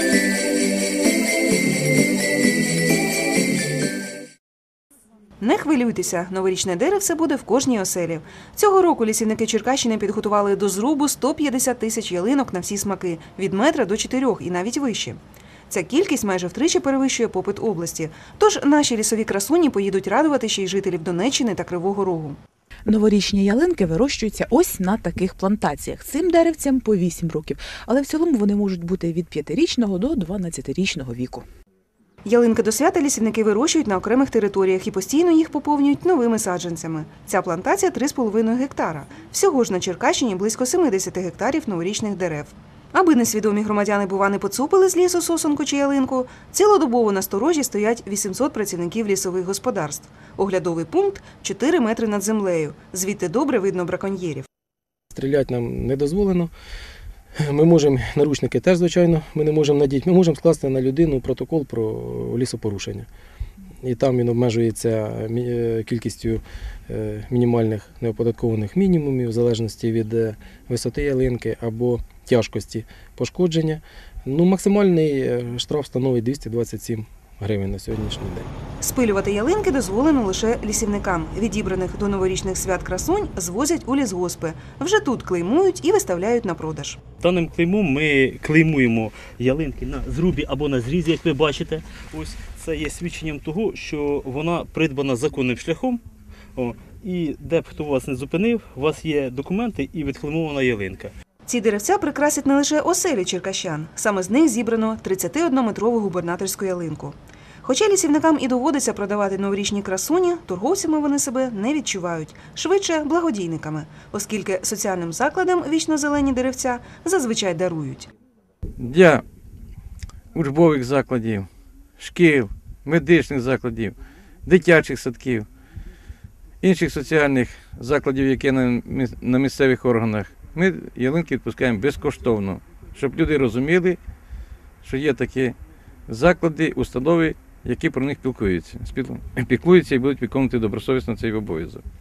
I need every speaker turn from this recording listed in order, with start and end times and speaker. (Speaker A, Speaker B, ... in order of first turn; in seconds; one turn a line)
Speaker A: 5.4-15.2
Speaker A: 15.7-22.4
Speaker B: 22.9-31.5
Speaker A: 32.2-54.5
Speaker C: 55.1-56.5
Speaker C: 57.4-63.1
Speaker C: 63.8-78.5
Speaker A: 78.8-87.0
Speaker D: 87.2-96.0
Speaker D: 96.6-101.1
Speaker A: 101.5-118.1
Speaker E: 118.8-119.2
Speaker E: 120.3-121.5
Speaker E: 122.0-125.5
Speaker E: 126.6-134.0
Speaker E: 134.8-135.6
Speaker E: 136.1-141.8